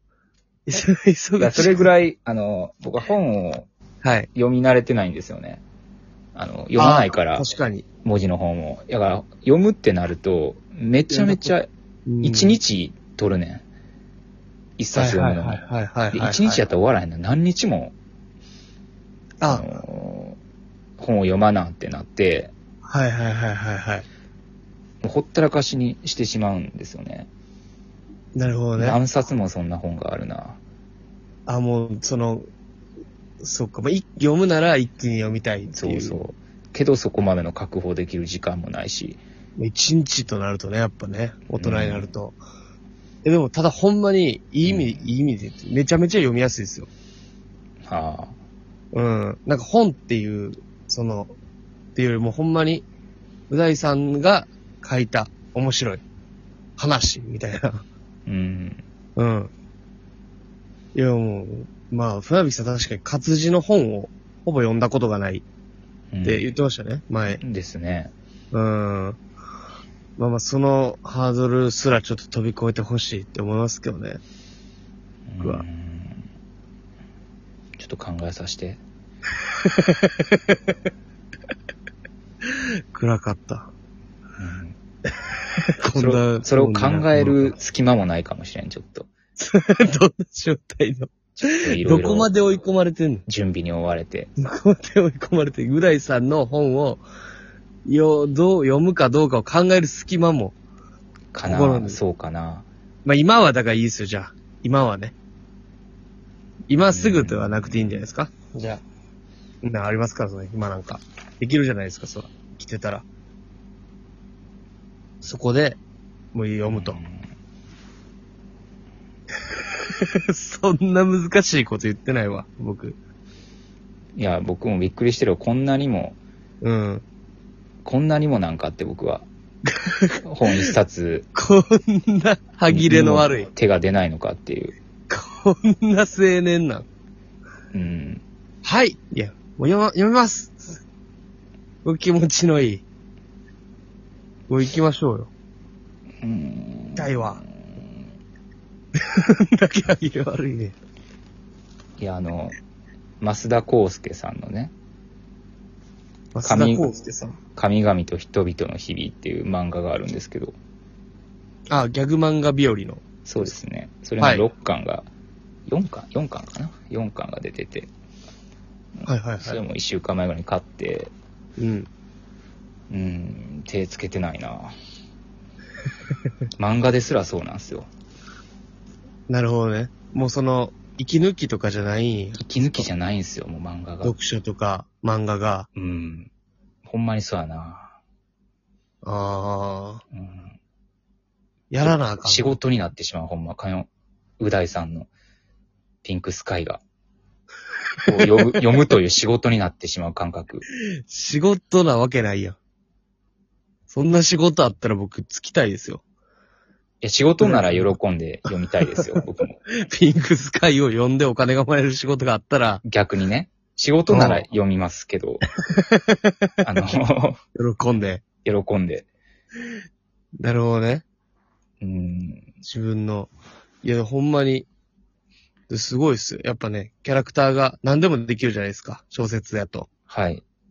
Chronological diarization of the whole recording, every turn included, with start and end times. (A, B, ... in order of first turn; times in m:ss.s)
0:00.7-0:01.9 A
0:01.4-0:03.7 B
0:04.0-0:04.3 A
0:04.4-0:05.6 B
0:06.4-0:07.5 B
0:06.8-0:07.9 A
0:08.0-0:11.7 B
0:11.1-0:11.5 A
0:12.1-0:12.6 A
0:12.2-0:13.6 B
0:14.8-0:15.6 B
0:15.0-0:16.6 A
0:16.1-0:18.0 B
0:19.5-0:20.4 B
0:21.0-0:22.5 B
0:22.9-0:24.1 A
0:25.0-0:27.3 B
0:28.4-0:29.0 A
0:28.8-0:30.6 B
0:31.5-0:32.5 A
0:33.4-0:36.2 A
0:35.7-0:39.2 B
0:39.6-0:42.4 A
0:41.5-0:42.1 B
0:43.2-0:46.9 A
0:44.6-0:45.0 B
0:47.8-0:48.4 B
0:48.9-0:51.3 A
0:52.0-0:52.9 A
0:53.5-0:56.0 A
0:56.8-0:57.8 A
0:58.3-0:58.8 B
0:59.2-0:59.5 A
1:00.9-1:05.4 A
1:06.1-1:06.5 B
1:06.2-1:07.4 A
1:07.4-1:08.1 B
1:08.5-1:09.2 A
1:10.2-1:14.2 A
1:15.3-1:16.2 B
1:17.8-1:18.8 B
1:19.6-1:20.6 A
1:22.9-1:23.7 A
1:24.4-1:24.8 B
1:25.8-1:27.6 A
1:25.9-1:29.1 B
1:29.4-1:33.2 A
1:31.6-1:32.3 B
1:33.3-1:34.3 B
1:34.4-1:37.0 A
1:37.9-1:40.6 A
1:41.3-1:42.7 B
1:41.4-1:42.0 A
1:43.0-1:45.2 A
1:46.7-1:48.8 A
1:46.9-1:48.0 B
1:49.6-1:53.1 A
1:55.2-1:55.8 A
1:56.3-1:57.0 A
1:56.7-1:57.3 B
1:59.9-2:03.0 A
2:04.2-2:06.2 B
2:06.6-2:07.0 A
2:07.8-2:09.3 B
2:09.7-2:10.7 A
2:10.2-2:11.3 B
2:11.4-2:13.5 A
2:12.7-2:14.7 B
2:15.1-2:16.9 A
2:17.7-2:18.2 B
2:18.6-2:20.8 A
2:21.8-2:22.8 A
2:24.5-2:25.3 A
2:26.2-2:27.9 B
2:27.0-2:27.4 A
2:29.1-2:30.8 A
2:32.0-2:32.6 B
2:33.2-2:34.7 B
2:36.3-2:37.4 A
2:36.4-2:36.9 B
2:37.6-2:40.6 B
2:41.7-2:43.6 A
2:43.3-2:45.1 B
2:44.2-2:44.5 A
2:45.7-2:47.9 B
2:49.0-2:51.1 B
2:49.1-2:49.6 A
2:51.6-2:51.9 A
2:52.9-2:54.8 B
2:56.6-2:57.9 B
2:59.3-3:02.9 A
3:02.4-3:04.2 B
3:04.0-3:05.7 A
3:05.8-3:06.3 B
3:06.8-3:07.9 B
3:09.0-3:10.0 A
3:10.1-3:10.6 B
3:11.7-3:12.6 A
3:11.8-3:15.1 B
3:16.0-3:16.8 B
3:18.1-3:20.6 B
3:21.1-3:22.6 A
3:23.9-3:26.0 A
3:27.0-3:29.6 B
3:27.4-3:28.0 A
3:28.5-3:29.2 A
3:29.8-3:32.8 A
3:32.8-3:35.4 B
3:34.1-3:34.5 A
3:35.7-3:36.3 A
3:36.6-3:37.4 B
3:37.6-3:38.2 A
3:38.4-3:39.1 B
3:40.4-3:41.0 A
3:41.8-3:42.5 B
3:42.6-3:43.3 A
3:43.8-3:44.7 A
3:45.7-3:49.9 A
3:50.1-3:50.4 B